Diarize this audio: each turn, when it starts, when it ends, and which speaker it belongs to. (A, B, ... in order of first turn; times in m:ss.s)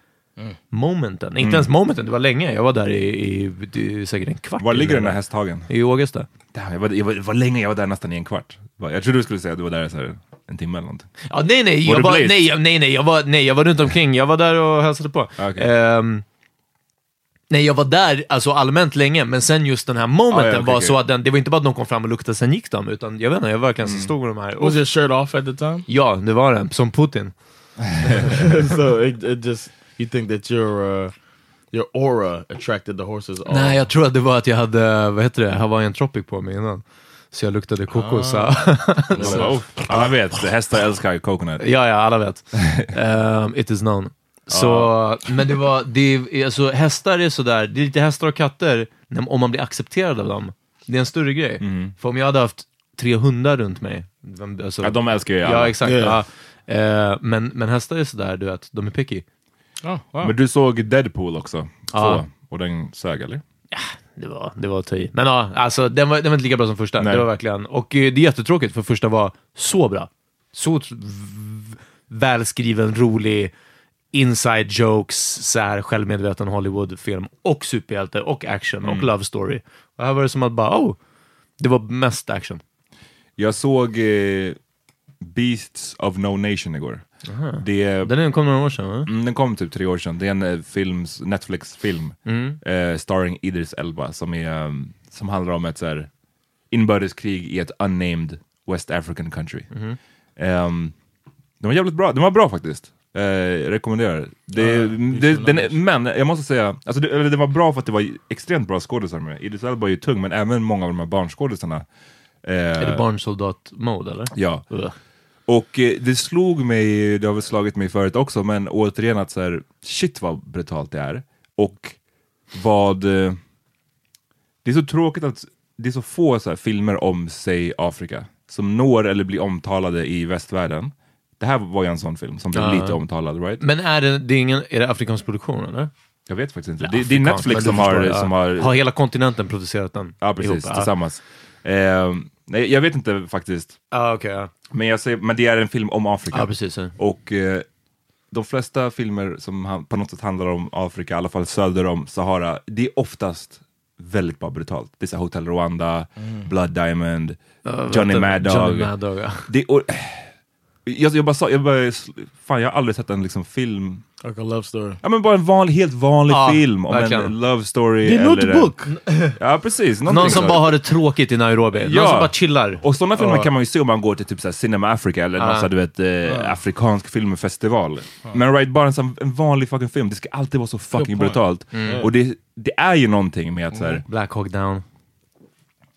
0:00.7-0:05.2 A
0:01.4-0:01.7 B
0:04.6-0:05.7 B
0:05.7-0:06.3 A
0:06.5-0:11.1 B
0:11.3-0:16.2 A
0:11.8-0:12.5 B
0:15.4-0:15.7 B
0:17.5-0:24.8 A
0:20.3-0:21.0 B
0:23.8-0:24.1 B
0:24.6-0:25.9 C
0:25.9-0:27.3 A
0:27.9-0:28.3 B
0:28.2-0:31.1 C
0:31.7-0:33.8 C
0:33.5-0:40.1 A
0:37.9-0:40.0 C
0:39.2-0:41.6 B
0:41.6-0:59.2 A
0:42.6-0:42.9 B
0:44.5-0:44.9 B
0:51.6-0:51.9 B
0:54.8-0:55.8 B
0:55.8-0:56.2 C
0:59.8-1:00.3 C
1:00.2-1:03.4 B
1:01.9-1:02.2 A
1:03.7-1:13.5 A
1:07.0-1:07.2 B
1:14.1-1:21.0 A
1:18.8-1:19.1 B
1:21.6-1:22.6 A
1:23.4-1:24.6 B
1:25.2-1:27.0 B
1:27.3-1:29.1 A
1:27.6-1:28.1 B
1:29.0-1:36.1 B
1:32.3-1:32.6 A
1:36.7-1:39.7 B
1:39.7-1:40.0 A
1:40.4-1:40.9 B
1:41.6-1:51.8 B
1:44.6-1:45.8 C
1:52.4-1:53.0 B
1:52.8-1:55.0 A
1:54.3-1:54.6 B
1:55.5-2:02.0 B
2:02.5-2:03.4 B
2:04.6-2:13.6 B
2:12.5-2:13.0 A
2:13.6-2:15.9 A
2:16.3-2:18.7 B
2:16.8-2:20.9 A
2:20.2-2:23.8 B
2:23.9-2:24.5 A
2:24.7-2:27.6 B
2:26.3-2:26.9 A
2:28.3-2:37.4 B
2:36.2-2:36.5 C
2:37.6-2:39.5 A
2:37.9-2:38.9 B
2:39.5-2:40.3 B
2:40.9-2:44.0 B
2:44.2-2:45.0 C
2:45.0-2:48.7 B
2:46.3-2:47.3 A
2:48.0-2:49.4 C
2:49.4-2:50.8 B
2:50.1-2:53.5 A
2:51.8-3:04.0 B
2:55.4-2:55.7 A
2:56.2-2:56.6 C
3:01.0-3:02.1 C
3:01.7-3:02.0 A
3:04.0-3:04.8 A